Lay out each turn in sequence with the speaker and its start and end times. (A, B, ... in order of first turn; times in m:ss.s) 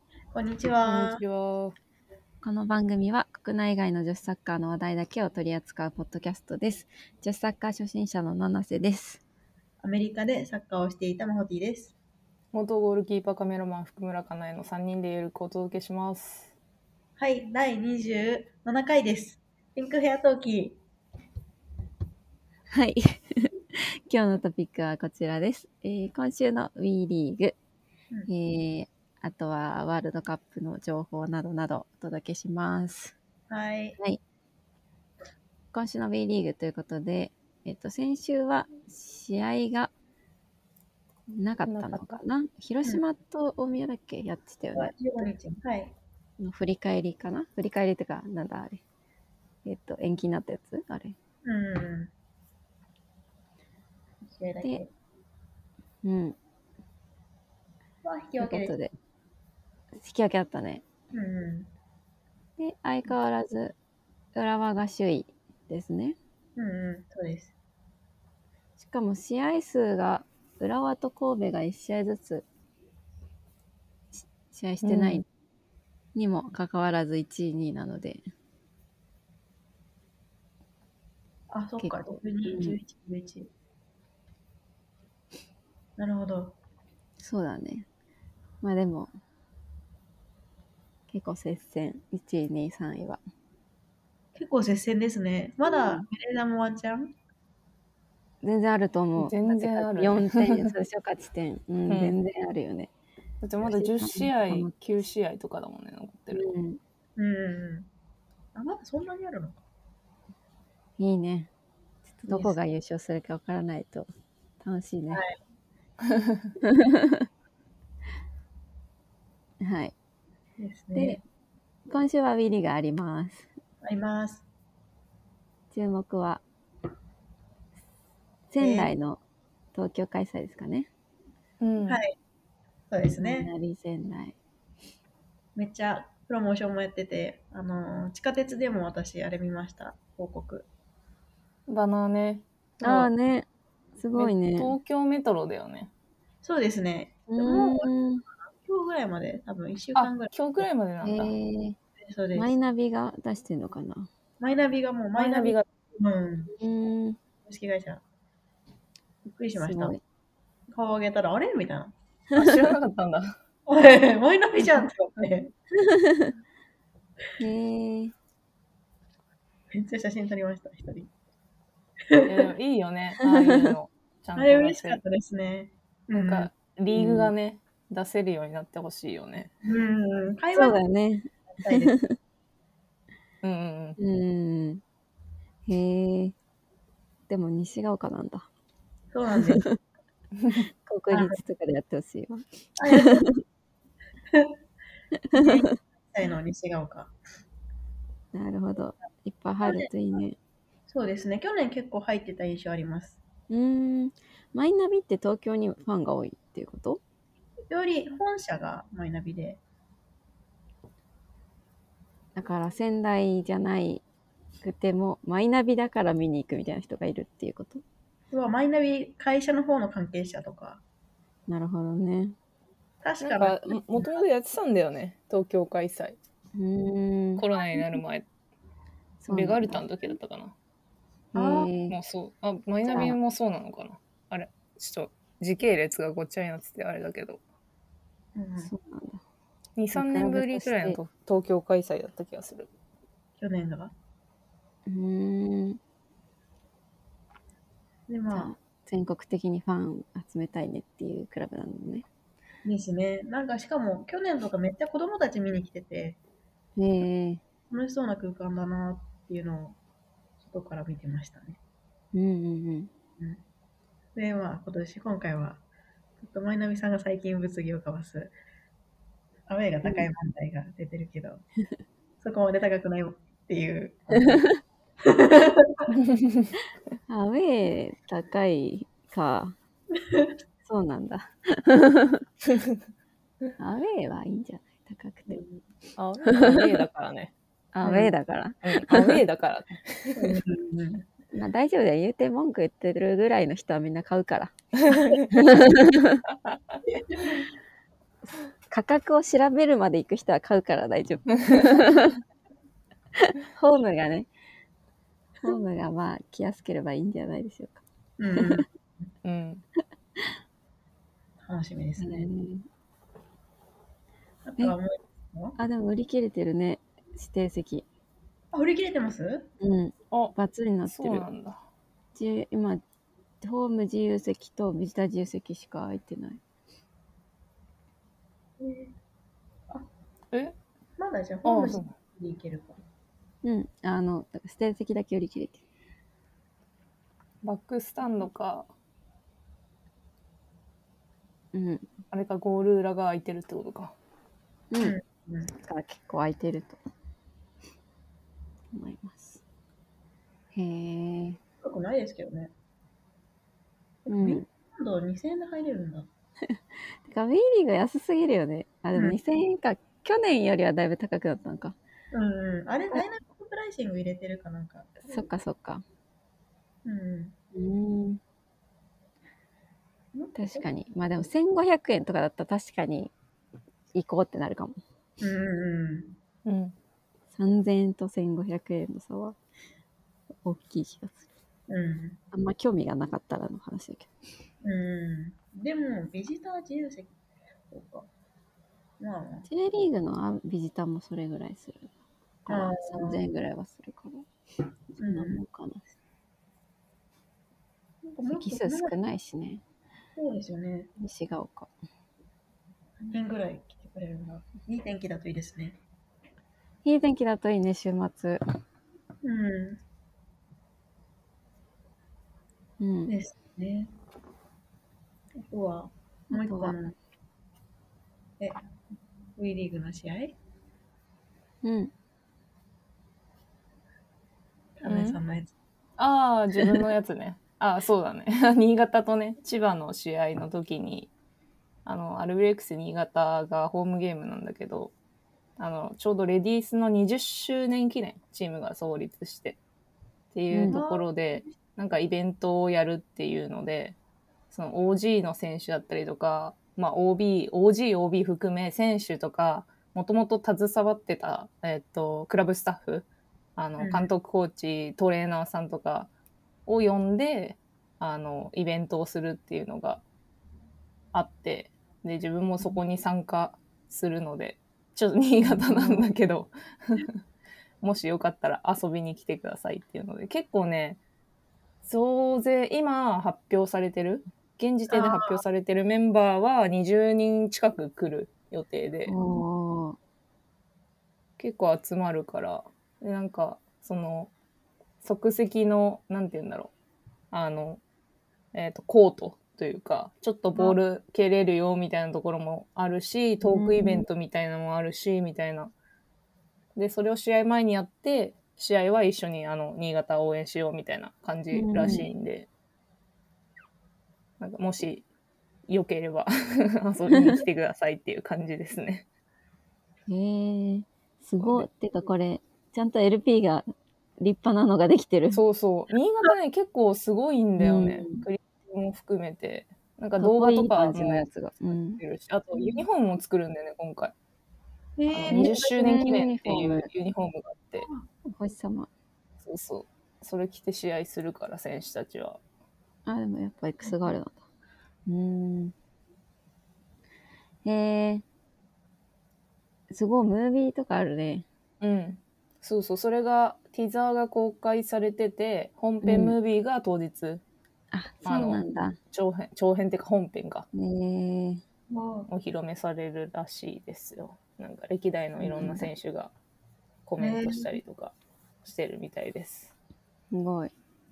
0:00.3-0:01.2 A
0:00.8-0:01.8 B
0:02.4-0:09.2 C
0:09.8-0:11.9 A
0:12.5-0:16.5 B
0:17.2-0:20.8 A
0:22.7-0:23.5 C
0:24.1-0:27.6 C
0:28.3-0:33.2 C
0:33.5-0:34.0 A
0:35.7-0:39.9 C
0:41.3-0:45.2 C
0:41.6-0:42.2 B
0:44.7-0:46.0 A
0:46.4-0:48.8 C
0:49.6-0:51.2 C
0:51.4-0:52.1 A
0:54.2-0:54.9 A
0:56.0-0:56.4 C
0:58.0-0:58.7 A
0:58.4-0:58.9 C
1:00.0-1:00.8 C
1:01.1-1:01.7 A
1:02.6-1:03.8 C
1:04.4-1:06.2 C
1:06.6-1:07.5 A
1:08.8-1:12.5 C
1:14.2-1:15.3 C
1:14.8-1:15.2 B
1:16.2-1:18.2 C
1:21.5-1:23.5 A
1:21.8-1:22.8 C
1:26.0-1:26.6 A
1:27.2-1:27.9 C
1:28.6-1:29.1 C
1:31.1-1:33.2 C
1:34.4-1:37.1 A
1:38.4-1:42.9 C
1:39.2-1:40.7 B
1:41.9-1:42.2 B
1:43.4-1:46.5 B
1:43.6-1:45.0 C
1:46.3-1:46.8 C
1:47.2-1:47.9 A
1:48.6-1:49.6 A
1:51.0-1:51.5 C
1:52.1-1:54.1 C
1:52.3-1:52.6 A
1:54.6-1:55.2 C
1:55.1-1:55.4 A
1:56.1-1:56.4 B
1:56.7-1:57.2 C
1:59.6-2:00.0 C
2:00.6-2:01.2 A
2:01.0-2:01.2 C
2:01.9-2:03.5 C
2:03.8-2:04.4 A
2:05.7-2:06.4 C
2:08.5-2:09.2 C
2:08.6-2:08.9 A
2:09.7-2:10.9 C
2:11.6-2:12.0 B
2:11.8-2:12.1 A
2:12.9-2:13.5 A
2:13.2-2:14.4 C
2:15.6-2:20.7 A
2:21.7-2:22.5 B
2:22.8-2:23.1 A
2:22.8-2:24.8 C
2:24.1-2:25.9 B
2:26.4-2:28.0 A
2:27.3-2:28.2 C
2:28.5-2:30.7 A
2:30.0-2:31.4 B
2:31.0-2:31.8 C
2:32.0-2:32.5 A
2:32.4-2:34.1 C
2:34.4-2:36.5 A
2:35.2-2:35.6 B
2:36.6-2:37.2 C
2:37.4-2:38.0 A
2:39.3-2:40.0 A
2:39.6-2:40.0 C
2:40.7-2:41.9 A
2:42.3-2:42.7 C
2:42.4-2:43.4 B
2:43.7-2:45.5 A
2:45.9-2:46.3 C
2:47.4-2:48.1 C
2:49.7-2:51.1 A
2:52.1-2:52.3 A
2:52.3-2:55.0 B
2:53.3-2:53.7 C
2:54.4-2:56.5 A
2:56.2-2:59.5 B
2:57.0-2:57.3 C
2:59.6-3:00.8 A
3:00.5-3:02.2 C
3:01.6-3:01.9 A
3:03.4-3:04.0 B
3:04.0-3:04.8 C
3:05.7-3:06.3 C
3:07.3-3:08.5 C
3:09.1-3:09.7 A
3:10.9-3:12.4 C
3:11.1-3:11.4 A
3:12.8-3:13.2 A
3:15.2-3:15.4 C
3:15.3-3:17.2 A
3:18.3-3:20.4 C
3:19.6-3:19.9 A
3:20.9-3:23.2 A
3:23.5-3:27.0 C
3:27.7-3:29.6 A
3:32.4-3:34.0 C
3:34.6-3:37.8 C
3:38.3-3:40.8 A
3:41.5-3:42.4 C
3:43.0-3:44.2 A
3:43.2-3:46.2 B
3:46.6-3:47.4 C
3:47.4-3:48.3 B
3:49.2-3:49.8 C
3:49.3-3:50.6 B
3:51.3-3:52.0 C
3:51.4-3:51.7 A
3:51.9-3:57.4 B
3:52.8-3:53.2 C
3:58.4-3:58.7 A
3:58.6-3:59.2 C
3:59.8-4:02.7 B
3:59.9-4:01.0 C
4:03.4-4:03.9 A
4:04.9-4:05.8 C
4:08.1-4:08.5 A
4:08.3-4:12.1 C
4:12.6-4:16.2 A
4:16.8-4:17.4 C
4:17.7-4:19.8 A
4:20.4-4:21.6 A
4:22.1-4:22.9 C
4:24.2-4:25.6 A
4:26.2-4:28.3 A
4:29.5-4:31.4 A
4:32.2-4:34.4 A
4:35.0-4:35.9 A
4:37.1-4:39.6 C
4:40.6-4:42.2 C
4:43.6-4:45.4 C
4:45.3-4:45.6 A
4:46.0-4:48.1 B
4:47.7-4:49.2 C
4:48.6-4:50.4 B
4:50.2-4:51.0 A
4:51.3-4:54.5 C
4:54.8-4:55.2 B
4:55.3-4:56.2 C
4:56.5-4:56.8 B
4:58.7-5:02.2 C
5:03.2-5:04.3 C
5:05.4-5:07.8 C
5:08.2-5:08.7 A
5:09.2-5:09.6 B
5:11.4-5:12.2 A
5:12.0-5:12.7 C
5:14.4-5:15.6 A
5:15.6-5:17.8 C
5:18.5-5:19.5 A
5:19.6-5:21.3 C
5:20.9-5:21.6 B
5:22.2-5:22.8 C
5:23.4-5:26.4 C
5:28.6-5:28.9 A
5:30.3-5:30.6 B
5:31.0-5:32.8 A
5:31.4-5:31.9 B
5:33.4-5:35.6 C
5:37.4-5:38.7 B
5:41.5-5:41.9 C
5:42.1-5:44.0 B
5:44.7-5:45.0 C
5:44.8-5:45.5 A
5:45.5-5:46.8 C
5:48.7-5:49.4 C
5:50.5-5:51.4 C
5:51.6-5:52.5 A
5:54.1-5:56.1 A
5:54.1-5:54.4 C
5:56.5-6:01.8 C
6:02.1-6:05.3 A
6:05.0-6:05.8 C
6:06.8-6:07.4 A
6:07.5-6:08.2 C
6:10.2-6:10.7 A
6:10.4-6:13.1 C
6:13.9-6:14.8 C
6:15.2-6:16.2 A
6:16.4-6:16.8 B
6:17.3-6:19.4 C
6:20.4-6:21.3 C
6:21.7-6:22.2 A
6:22.3-6:24.1 C
6:24.6-6:27.1 A
6:27.7-6:28.1 A
6:29.0-6:29.5 A
6:29.5-6:31.9 C
6:32.4-6:34.3 C
6:32.5-6:33.2 A
6:35.0-6:35.4 A
6:35.0-6:35.8 C
6:38.0-6:38.9 A
6:38.3-6:39.6 C
6:40.2-6:40.9 A
6:41.0-6:41.7 C
6:43.0-6:45.8 A
6:46.8-6:48.4 C
6:49.2-6:49.8 A
6:52.8-6:53.1 C
6:53.1-6:53.9 A
6:55.5-6:56.9 A
6:56.3-6:56.8 C
6:59.4-7:00.4 A
7:01.6-7:01.9 C
7:04.8-7:05.5 A
7:04.8-7:05.2 B
7:06.0-7:11.1 B
7:11.8-7:14.9 B
7:15.6-7:19.6 B
7:20.3-7:24.0 B
7:20.5-7:20.8 C
7:20.7-7:21.5 A
7:24.5-7:36.1 B
7:33.8-7:34.1 A
7:36.7-7:40.0 B
7:41.1-7:47.2 B
7:47.8-7:51.0 B
7:51.8-7:59.2 B
7:54.9-7:55.4 A
7:59.1-8:00.0 C
8:01.4-8:04.3 B
8:05.0-8:06.7 B
8:07.3-8:07.8 B
8:08.5-8:15.7 B
8:13.4-8:14.1 C
8:16.8-8:22.5 B
8:21.5-8:22.1 C
8:24.4-8:25.1 B
8:25.7-8:29.1 B
8:30.1-8:33.6 C
8:31.4-8:31.7 B
8:34.2-8:35.4 C
8:35.3-8:44.1 B
8:37.6-8:38.2 C
8:40.2-8:42.0 C
8:45.0-8:46.1 A
8:45.1-8:47.9 B
8:45.3-8:46.9 C
8:47.8-8:48.1 A
8:48.3-8:48.9 C
8:49.4-8:52.4 B
8:53.1-8:54.4 C
8:53.8-8:54.1 A
8:55.1-8:55.7 C
8:57.6-8:58.2 C
8:59.9-9:01.4 C
9:01.8-9:07.4 B
9:06.0-9:06.4 C
9:07.9-9:09.0 C
9:08.2-9:10.7 B
9:10.8-9:11.6 C
9:11.9-9:12.3 A
9:12.3-9:16.3 B
9:15.4-9:15.9 C
9:17.1-9:19.7 B
9:17.2-9:17.8 A
9:20.3-9:20.7 C